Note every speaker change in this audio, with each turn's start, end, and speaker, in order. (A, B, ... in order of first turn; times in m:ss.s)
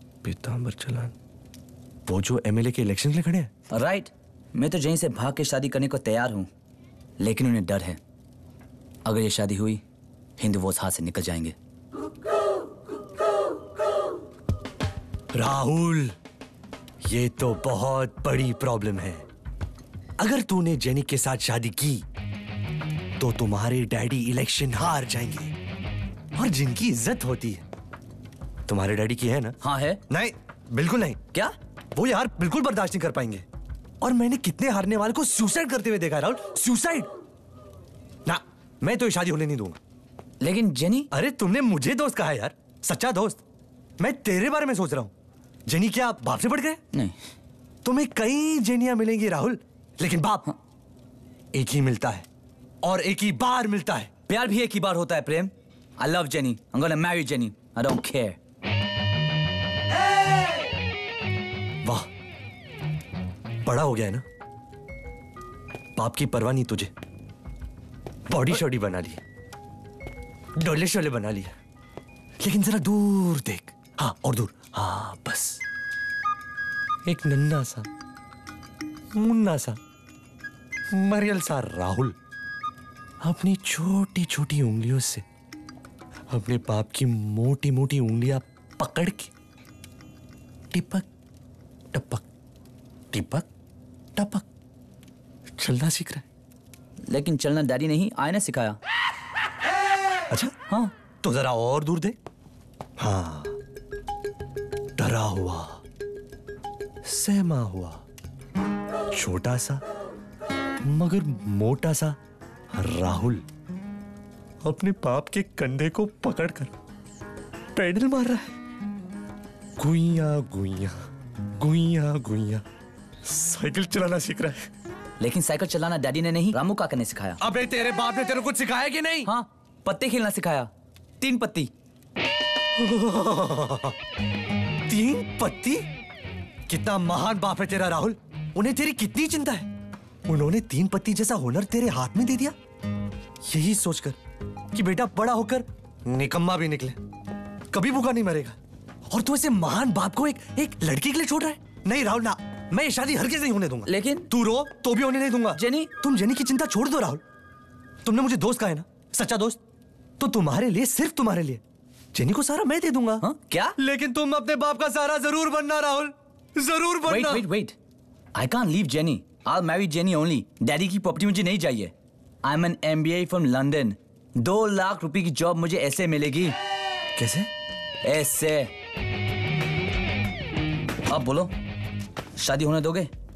0:00.2-0:01.1 A
0:02.1-0:03.5 A
0:03.7-0:06.5 B
0:07.2-0:08.0 B
0:09.0-0:09.8 B
0:10.4-0:11.5 B
0:15.3-0:16.2 A
0:17.1-0:19.2 A
0:20.2-0:22.0 A
0:23.2-0:25.5 A
0:26.4-0:27.6 A
0:28.7-0:29.6 A
0:29.6-0:30.0 B
0:30.1-0:31.2 A
0:31.9-0:33.4 A
0:34.0-0:37.1 A
0:38.2-0:39.8 A
0:40.4-0:41.1 B
0:41.1-0:43.4 A
0:44.0-0:45.1 A
0:45.6-0:46.8 A
0:47.8-0:50.4 A
0:51.5-0:52.3 A
0:52.8-0:54.1 A
0:54.3-0:58.4 B
1:03.6-1:04.2 A
1:06.0-1:06.9 A
1:08.3-1:09.2 A
1:10.6-1:11.5 A
1:12.4-1:15.6 A
1:17.1-1:17.9 A
1:19.2-1:19.8 A
1:20.9-1:22.1 A
1:23.2-1:25.2 A
1:26.3-1:29.3 A
1:30.7-1:31.0 A
1:31.9-1:32.2 A
1:33.1-1:33.4 A
1:34.2-1:34.4 A
1:35.6-1:36.2 A
1:37.1-1:38.8 B
1:41.2-1:42.2 A
1:43.0-1:43.6 A
1:45.0-1:45.8 A
1:47.0-1:48.0 A
1:49.1-1:49.8 A
1:50.8-1:52.2 A
1:52.7-1:53.4 A
1:54.6-1:56.7 A
1:57.7-1:58.5 A
1:59.8-2:01.0 A
2:01.6-2:02.6 A
2:03.2-2:04.7 A
2:05.2-2:07.4 B
2:07.4-2:09.3 A
2:09.2-2:11.7 B
2:12.8-2:13.9 A
2:14.9-2:15.8 A
2:16.7-2:19.7 A
2:20.2-2:22.5 A
2:23.5-2:24.2 A
2:24.7-2:27.0 A
2:27.7-2:28.6 A
2:29.1-2:37.2 A
2:33.8-2:34.3 B
2:35.5-2:35.9 B
2:38.0-2:39.6 A
2:40.2-2:41.6 A
2:42.1-2:43.2 A
2:43.2-2:43.8 B
2:43.8-2:47.4 A
2:47.1-2:47.8 B
2:48.3-2:51.9 B
2:52.4-2:56.6 B
2:57.2-2:57.5 A
2:58.0-2:58.7 B
3:01.1-3:01.5 B
3:02.4-3:03.1 B